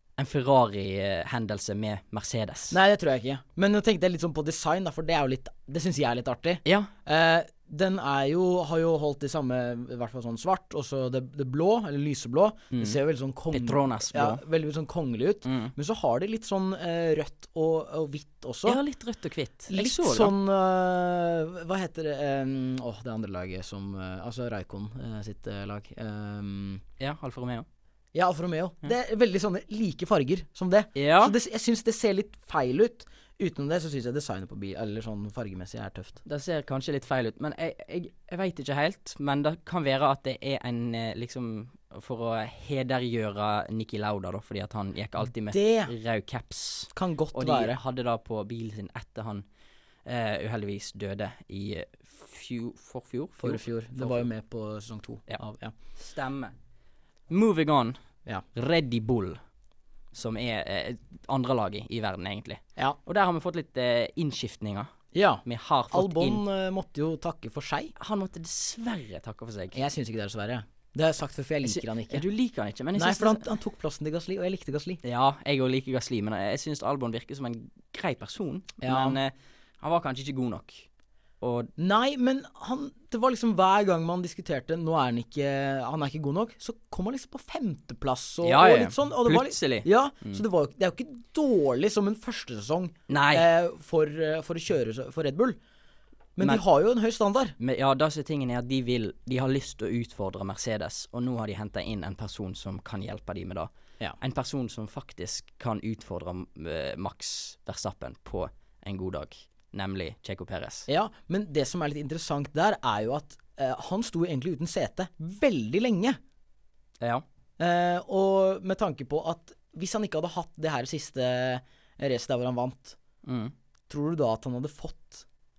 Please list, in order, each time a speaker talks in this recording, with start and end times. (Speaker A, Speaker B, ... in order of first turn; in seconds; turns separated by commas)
Speaker A: 0.2-2.8, Speaker B: 2.7-18.8, Speaker A: 6.7-6.9, Speaker A: 12.7-13.0, Speaker A: 13.5-14.4, Speaker A: 15.4-15.7, Speaker A: 18.7-20.3, Speaker B: 19.7-26.8, Speaker A: 27.0-27.7, Speaker B: 28.1-36.2, Speaker A: 30.9-31.4, Speaker A: 36.2-49.5, Speaker B: 45.5-45.9, Speaker B: 46.9-47.8, Speaker A: 50.0-54.3, Speaker B: 53.4-55.7, Speaker A: 56.0-56.5, Speaker A: 57.3-58.0, Speaker A: 58.5-59.4, Speaker A: 60.1-66.4, Speaker B: 65.1-67.9, Speaker A: 68.0-69.8, Speaker B: 69.7-72.2, Speaker A: 71.6-73.5, Speaker B: 73.0-75.0, Speaker A: 75.0-80.9, Speaker B: 78.8-79.2, Speaker A: 81.4-81.7, Speaker B: 81.8-95.6, Speaker A: 88.4-90.4, Speaker A: 93.1-93.5, Speaker B: 96.4-97.6, Speaker A: 97.6-110.9, Speaker B: 110.9-116.2, Speaker B: 117.6-123.0, Speaker A: 123.2-123.5, Speaker B: 123.9-125.2